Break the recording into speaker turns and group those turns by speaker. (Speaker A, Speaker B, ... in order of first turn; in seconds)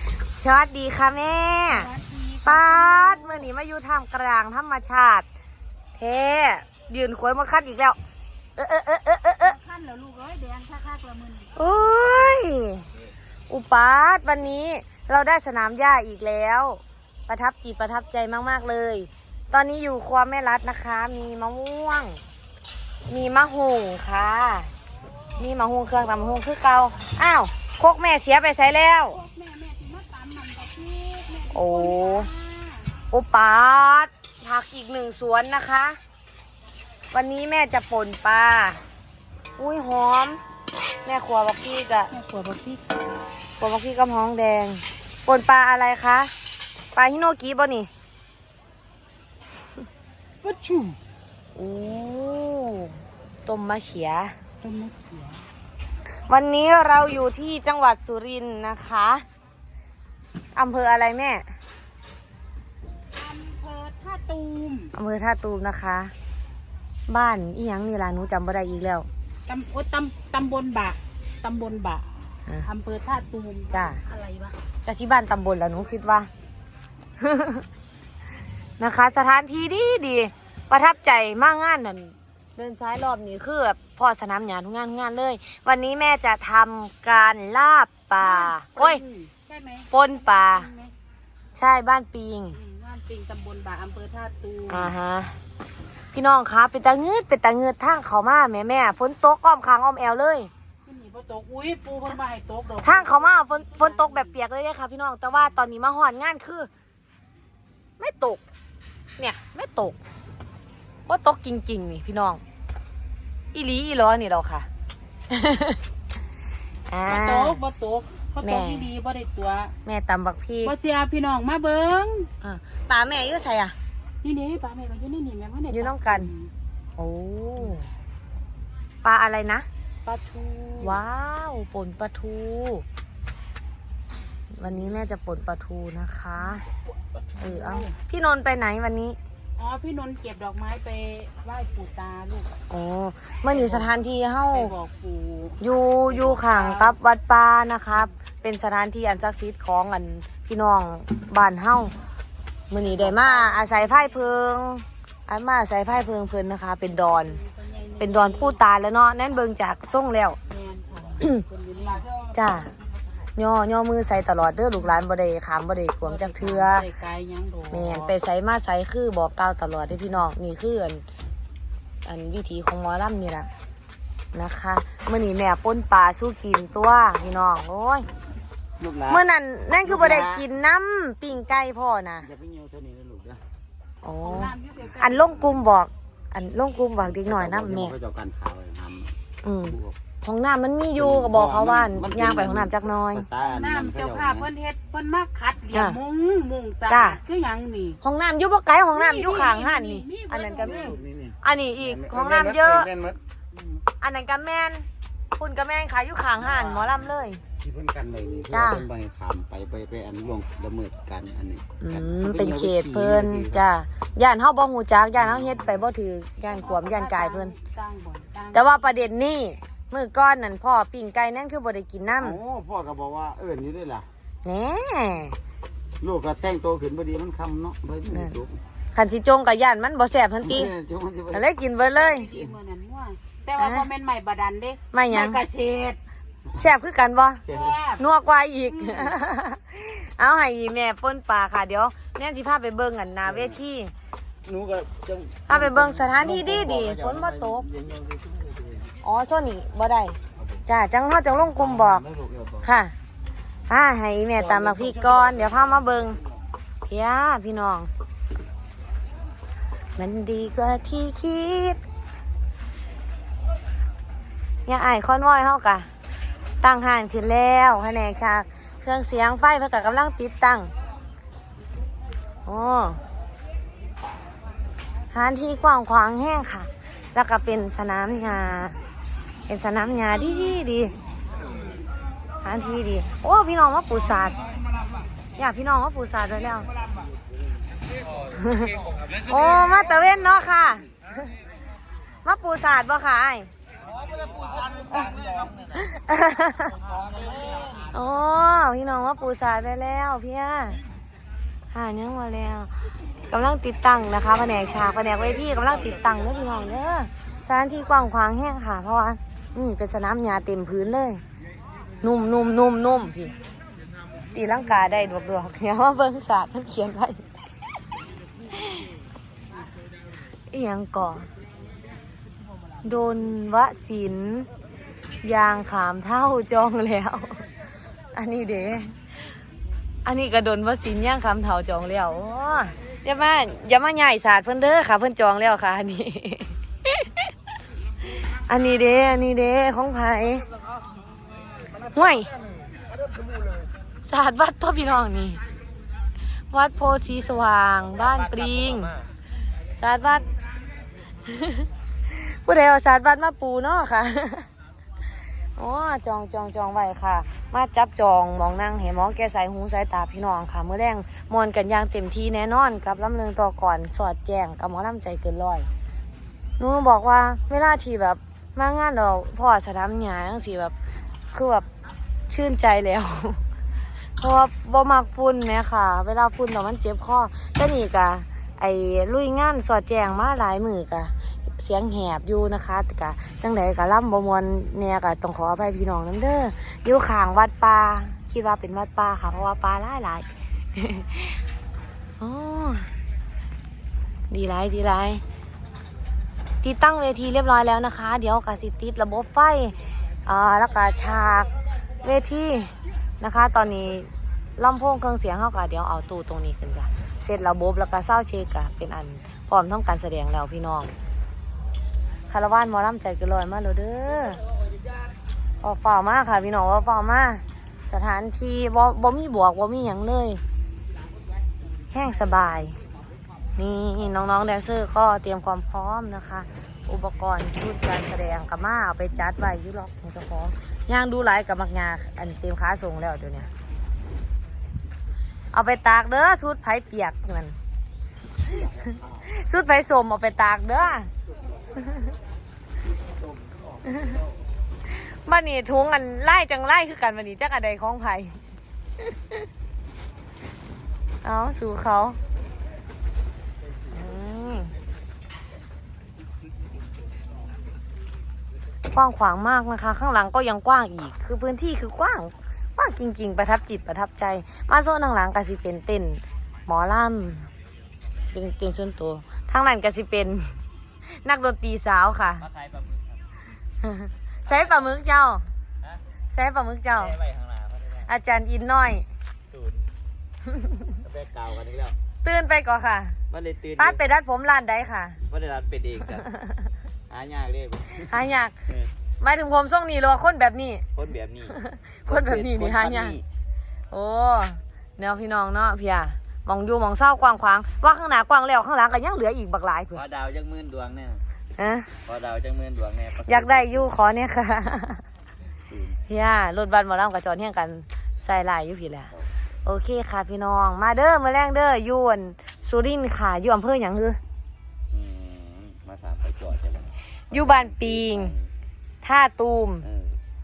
Speaker A: 0.3-1.9, 2.5-5.2, 6.0-8.0, 8.6-9.6, 11.6-12.9, 13.5-22.2, 23.1-24.7, 25.4-29.2, 31.5-32.3, 33.1-36.0, 37.1-38.8, 39.6-40.4, 41.0-42.1, 43.6-46.3, 46.9-47.9, 51.5-54.3, 56.3-59.2, 60.6-61.5, 64.9-66.1, 67.1-69.1, 73.7-74.0, 74.8-76.3, 77.2-77.7, 78.8-89.0, 89.9-90.7, 91.5-92.6, 94.7-95.3, 96.1-100.5, 102.8-106.7, 108.0-108.4, 109.2-110.0, 111.1-112.4, 113.5-114.7, 115.3-115.8, 116.9-117.6, 118.4-118.9, 119.8-120.8, 122.4-123.8, 125.7-126.3, 127.0-127.9, 129.0-129.7, 130.8-132.8, 134.6-136.6, 137.4-139.2, 142.7-144.7, 145.6-151.9, 152.7-157.4, 158.0-160.4, 162.3-162.7, 163.4-166.9, 167.7-171.0, 172.1-173.5, 174.3-178.1, 179.1-182.3, 184.0-188.0, 189.4-193.3, 195.7-196.0, 196.9-197.2, 198.0-202.9, 204.0-207.4, 208.5-208.9, 211.8-217.5, 218.5-222.4, 224.4-225.4, 228.1-228.4, 228.9-230.8, 231.3-232.3, 233.6-233.9, 234.9-235.4, 236.5-237.4, 238.0-243.9, 245.5-247.7, 249.0-252.1, 252.6-252.9, 253.7-256.2, 256.8-257.9, 260.0-261.8, 264.7-265.9, 266.6-270.7, 272.5-273.0, 275.1-278.8, 279.5-280.9, 282.4-284.4, 285.4-286.7, 288.4-290.9, 292.2-293.5, 294.9-296.8, 297.9-300.8, 301.7-302.7, 303.3-311.2, 312.0-313.3, 314.3-317.2, 318.5-318.9, 320.5-321.3, 322.8-324.5, 325.2-327.4, 328.1-328.9, 330.1-337.1, 338.2-340.4, 341.9-342.3, 344.1-345.4, 346.5-349.0, 349.8-350.3, 351.3-354.5, 355.6-365.7, 366.6-370.8, 371.3-371.7, 372.3-373.4, 374.2-391.4, 392.2-392.9, 394.3-395.2, 396.6-401.5, 402.0-410.9, 412.3-414.4, 415.6-420.4, 421.9-422.8, 423.6-433.5, 435.5-437.6, 439.2-441.1, 444.9-448.4, 449.1-449.4, 451.2-452.2, 453.9-454.7, 458.9-467.5, 468.3-470.6, 471.1-472.5, 473.8-475.5, 476.3-477.2, 478.1-479.1, 482.2-483.2, 483.8-485.2, 487.9-488.6, 489.2-490.9, 491.5-493.2, 493.9-500.0, 501.6-501.9, 503.2-505.0, 506.1-509.1, 509.6-514.2, 517.3-518.4, 519.0-519.9
Speaker B: 1.7-3.5, 9.4-11.5, 29.1-33.0, 42.1-42.8, 50.4-51.0, 54.6-55.5, 63.1-64.9, 69.5-74.6, 88.2-90.9, 92.5-94.9, 100.9-104.3, 117.1-119.8, 120.6-122.3, 124.2-126.5, 130.1-131.0, 137.2-137.9, 139.6-142.6, 143.5-143.9, 144.5-147.0, 152.7-154.3, 157.1-158.6, 160.5-162.1, 166.0-168.1, 184.2-185.3, 193.4-198.0, 198.9-201.0, 216.5-218.9, 231.8-236.0, 237.5-238.0, 238.7-239.2
Speaker C: 178.8-179.2, 179.9-180.4, 182.3-183.4, 187.2-189.1, 191.2-194.5, 200.6-201.4, 202.0-203.2, 207.6-213.6, 222.2-224.1, 226.0-228.6, 230.5-231.4, 244.5-248.4, 252.1-252.5, 254.6-255.6
Speaker D: 472.4-473.2, 474.5-474.9, 477.0-478.1, 479.5-479.9, 481.0-482.0, 483.3-484.0, 485.2-486.3, 487.1-488.1, 490.9-491.6, 492.1-493.2, 499.9-501.2, 502.0-503.9, 505.7-506.0, 514.9-518.5, 519.9-520.2